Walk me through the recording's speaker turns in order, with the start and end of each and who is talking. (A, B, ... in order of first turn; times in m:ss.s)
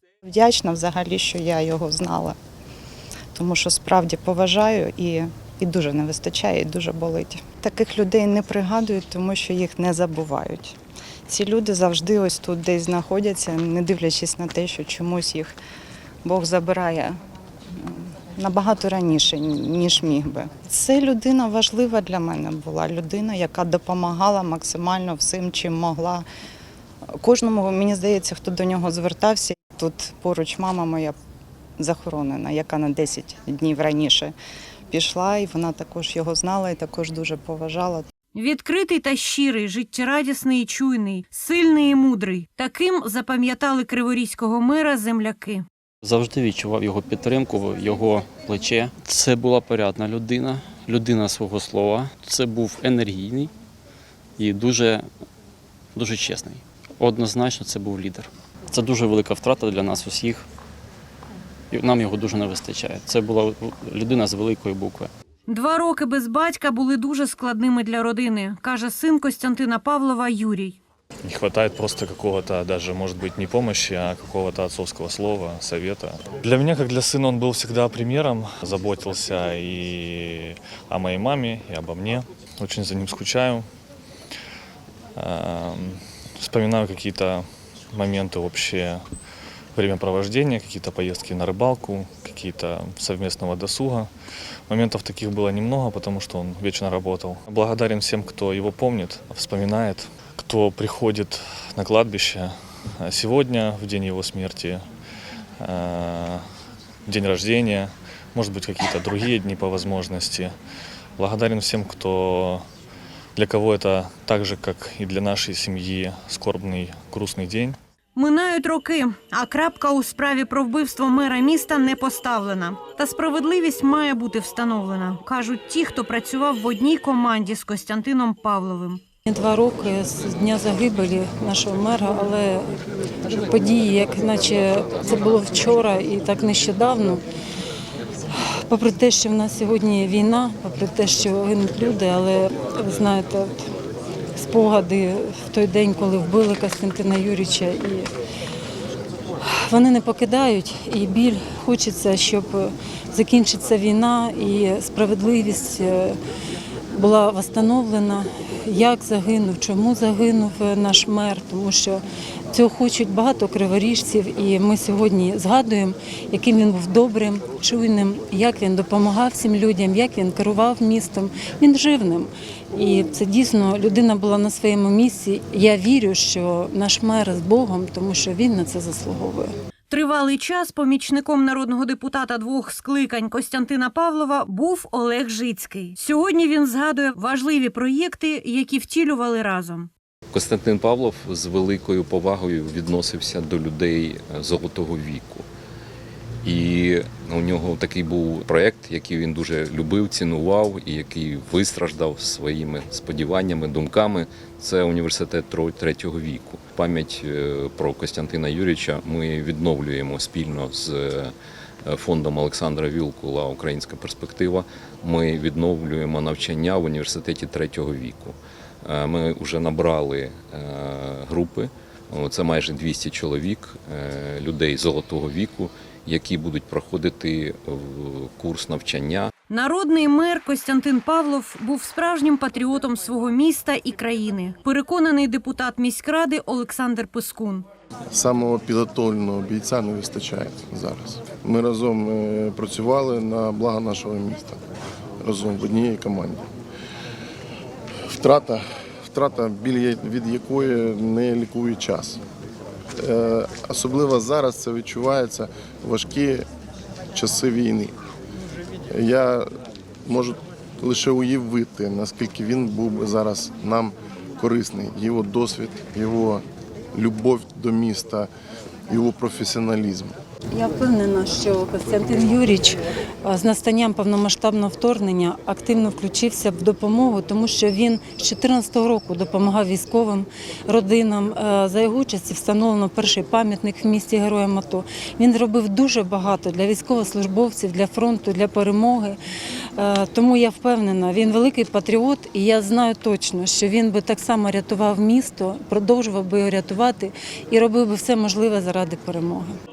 0:00.2-0:02.4 A
0:03.3-0:15.5 A
0:16.2-0:17.2 A
0:17.8-0:26.2 A
0:27.2-0:31.1 A
0:31.8-0:34.3 A
0:34.9-0:38.1 A
0:38.3-0:45.6 B
0:46.0-0:53.5 C
0:54.4-0:55.1 C
0:55.9-1:00.5 C
1:01.7-1:05.1 C
1:05.5-1:10.8 B
1:11.2-1:23.6 D
1:25.2-1:29.0 D
1:29.8-1:34.1 D
1:34.7-1:44.8 D
1:45.6-1:46.4 D
1:47.1-1:50.5 D
1:51.2-1:52.6 D
1:53.4-1:57.8 D
1:58.1-2:09.0 B
2:09.3-2:12.7 E
2:13.3-2:17.2 E
2:18.7-2:23.6 E
2:24.3-2:28.1 E
2:29.4-2:36.2 E
2:36.9-2:59.5 E
2:59.9-3:09.9 B
3:10.3-3:15.5 F
3:16.4-3:31.3 F
3:31.8-3:49.3 F
3:49.5-3:57.7 B
3:58.1-4:04.6 G
4:05.2-4:06.4 G
4:08.2-4:12.2 G
4:13.0-4:16.5 G
4:17.1-4:17.9 G
4:18.9-4:19.4 G
4:20.0-4:28.3 G
4:28.9-4:30.1 G
4:30.5-4:49.2 E
4:49.8-4:59.6 E